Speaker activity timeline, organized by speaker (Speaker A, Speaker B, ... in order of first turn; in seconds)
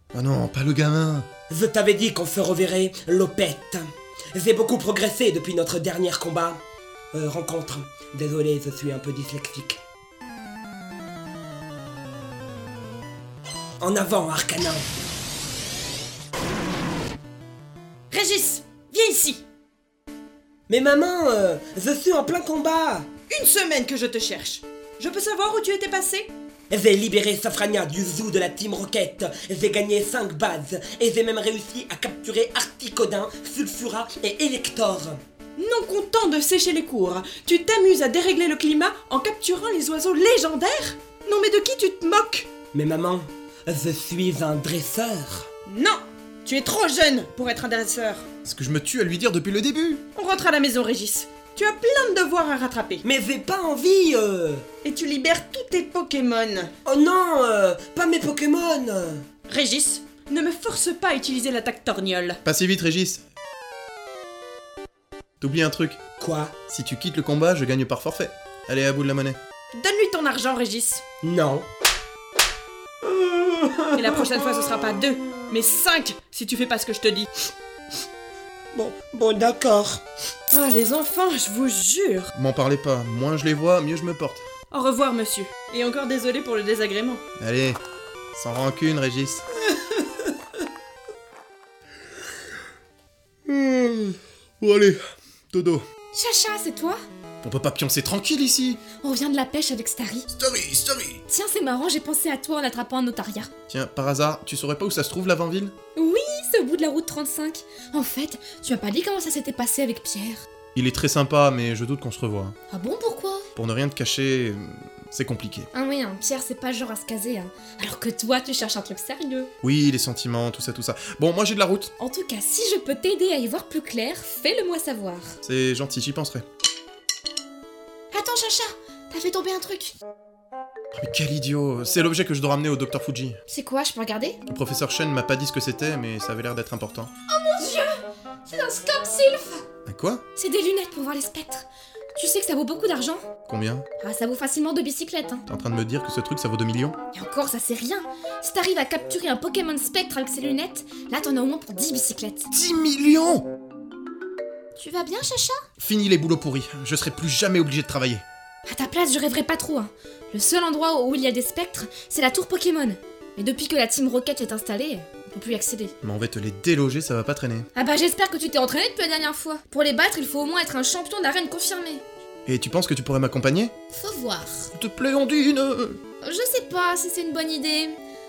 Speaker A: 0.1-1.3, 48.5-50.0, 62.4-63.2, 65.4-66.0, 66.7-69.4, 82.3-84.4, 87.4-87.8, 88.3-89.5, 93.5-95.0, 95.5-95.8, 97.4-98.8, 100.3-101.2, 103.7-105.7, 110.7-112.6, 113.5-115.7, 119.6-121.9, 125.4-126.5, 130.9-133.4, 134.5-137.1, 139.9-140.2, 143.5-143.9, 145.5-147.0, 152.5-153.5, 155.8-158.2, 166.0-167.7, 172.5-173.7, 174.7-176.0
Speaker B: 1.5-6.6, 7.1-9.8, 13.8-14.8, 20.7-23.1, 26.7-35.2, 42.7-45.5, 53.0-54.7, 56.9-59.2, 66.2-66.5, 71.2-71.7, 73.0-74.4, 78.7-80.0
Speaker C: 18.1-19.4, 23.3-26.3, 35.6-42.5, 45.7-48.2, 50.1-53.0, 54.8-56.7, 59.5-62.4, 69.7-71.0, 74.0-77.3, 80.5-82.3, 84.7-87.2
Speaker D: 96.1-97.0, 99.0-100.3, 101.3-103.5, 106.0-110.4, 112.7-113.5, 115.7-119.5, 122.0-125.3, 128.1-129.9, 133.5-134.4, 137.3-137.9, 138.5-139.7, 140.3-143.2, 144.0-145.4, 147.1-152.5, 154.8-155.6, 158.7-165.9, 167.8-172.0, 173.9-174.7, 176.2-178.0